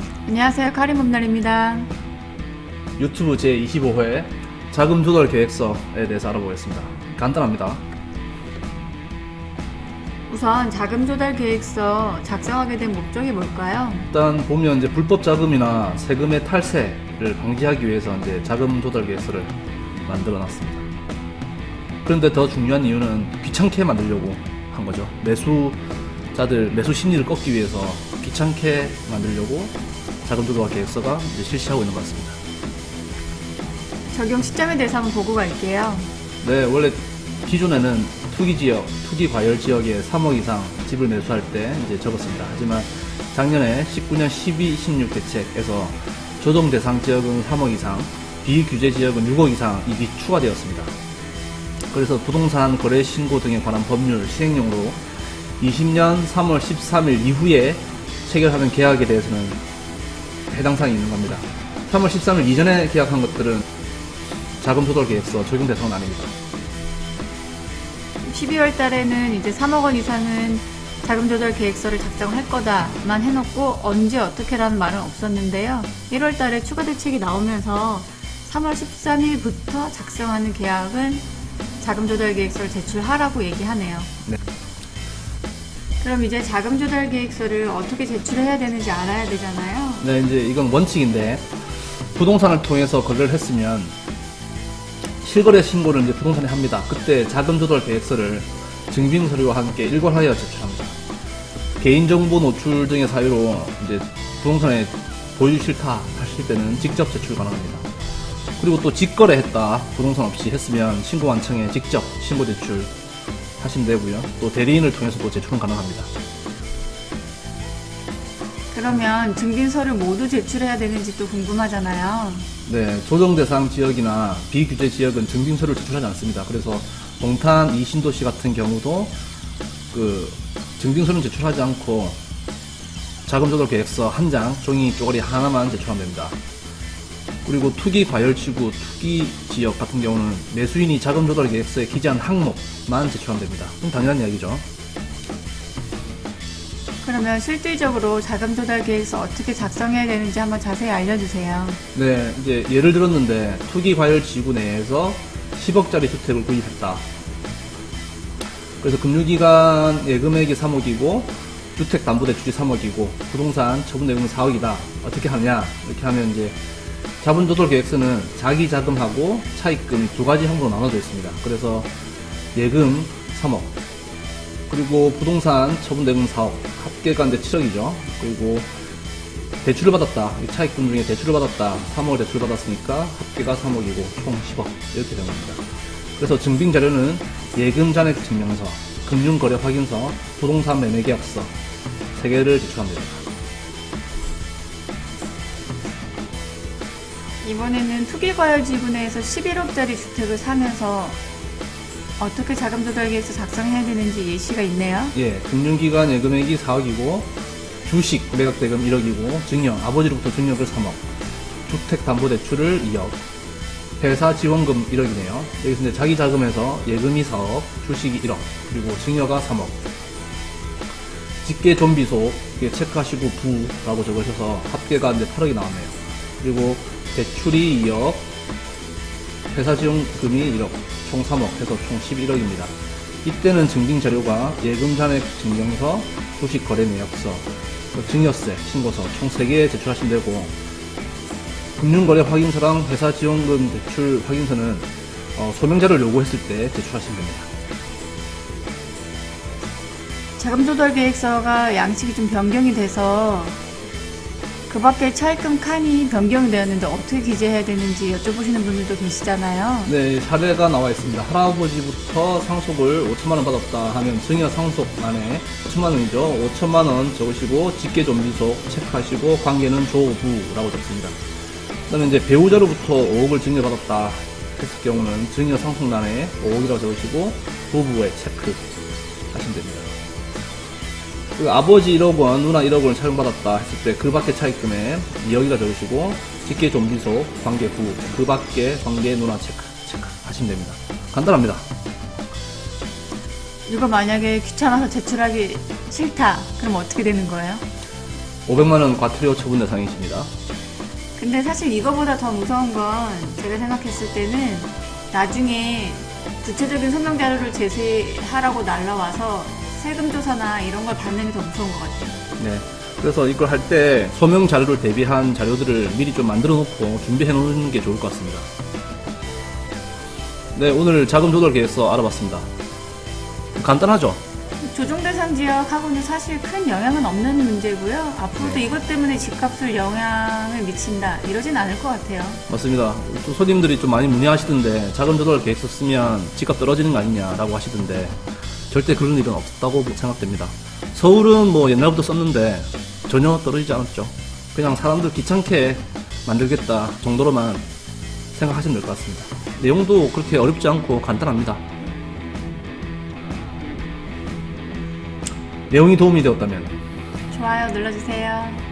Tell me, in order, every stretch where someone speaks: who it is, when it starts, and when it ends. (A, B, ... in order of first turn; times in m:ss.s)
0:00.2-0:01.9 A
0:03.0-0:07.8 B
0:10.3-0:14.1 A
0:14.1-0:20.8 B
0:22.0-0:25.8 B
0:26.3-0:32.4 B
0:34.1-0:36.1 A
0:36.4-0:50.9 B
0:51.9-0:55.0 B
0:55.6-0:59.6 B
1:00.5-1:03.6 B
1:04.6-1:06.3 B
1:08.2-1:21.2 A
1:21.8-1:24.1 A
1:26.0-1:30.0 A
1:30.0-1:31.5 B
1:32.1-1:33.9 B
1:35.2-1:41.0 B
1:41.8-1:47.8 B
1:48.6-1:52.9 B
1:53.6-1:56.1 B
1:58.7-2:02.5 A
2:02.6-2:09.1 B
2:09.9-2:12.2 B
2:13.2-2:16.4 B
2:17.4-2:24.6 B
2:27.0-2:31.8 A
2:31.9-2:37.0 B
2:38.8-2:46.6 B
2:47.2-2:51.9 B
2:52.5-2:53.7 B
2:54.7-2:58.7 B
2:59.6-3:05.6 B
3:06.2-3:11.5 B
3:12.1-3:13.2 B
3:17.4-3:21.2 A
3:22.2-3:25.1 A
3:25.1-3:27.3 B
3:27.8-3:31.0 B
3:31.6-3:33.2 B
3:34.0-3:39.8 B
3:41.4-3:48.3 B
3:49.5-4:00.5 B
4:01.8-4:07.5 B
4:10.4-4:13.6 A
4:14.7-4:19.9 A
4:19.8-4:31.1 B
4:31.9-4:38.6 B
4:39.3-4:39.9 B
4:41.4-4:51.6 B
4:53.7-4:57.6 A
4:58.5-5:00.3 B
5:01.2-5:12.2 A
5:12.4-5:18.5 B
5:20.5-5:22.5 B
5:23.5-5:24.2 B
5:24.6-5:32.4 A
5:28.4-5:28.6 B
5:32.5-5:38.2 B
5:38.7-5:47.6 B
5:48.3-5:51.6 B
5:55.7-5:56.7 B
5:57.3-5:58.6 A